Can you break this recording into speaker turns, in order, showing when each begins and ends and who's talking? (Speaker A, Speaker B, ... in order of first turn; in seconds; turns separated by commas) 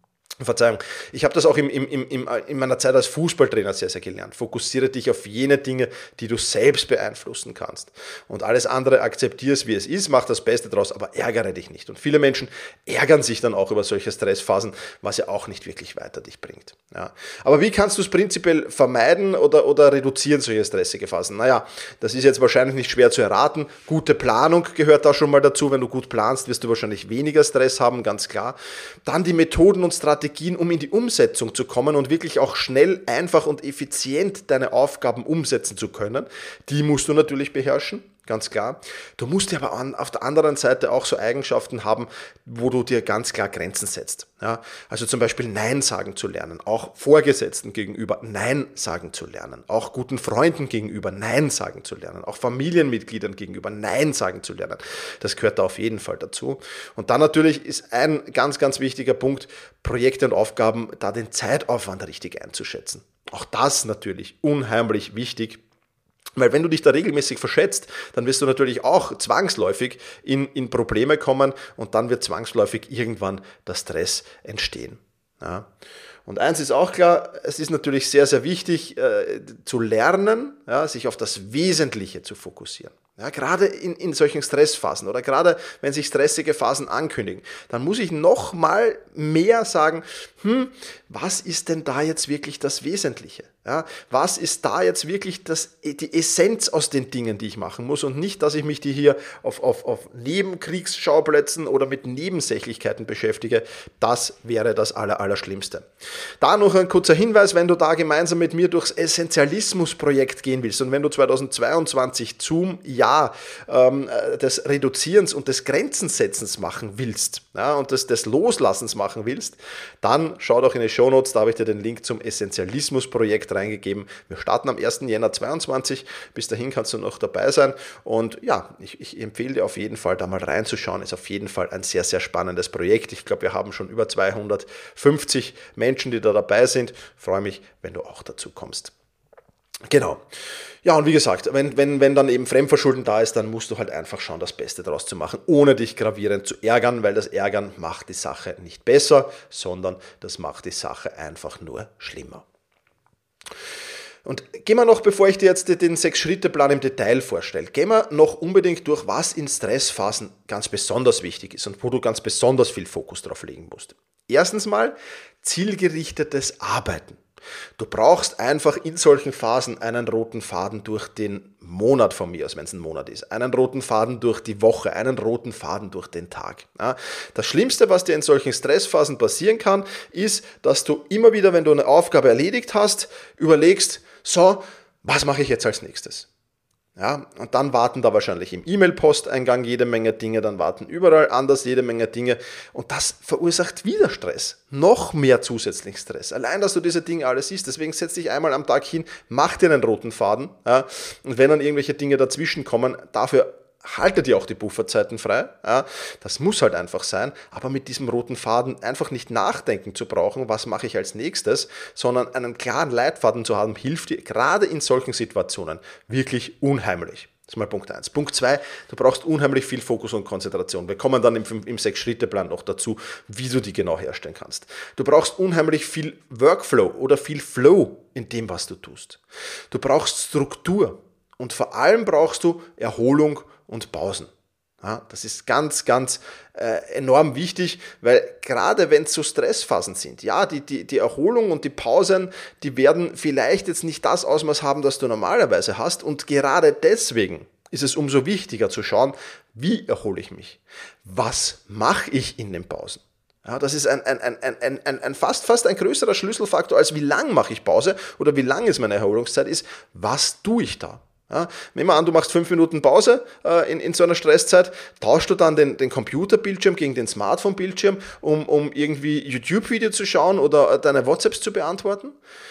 Speaker A: 0.4-65.6, Speaker A: 66.4-75.7, Speaker A: 76.2-105.8, Speaker A: 106.4-138.9, Speaker A: 139.9-140.2, Speaker A: 140.8-152.4, Speaker A: 154.2-167.2, Speaker A: 167.8-186.3, Speaker A: 187.0-234.3, Speaker A: 234.8-272.1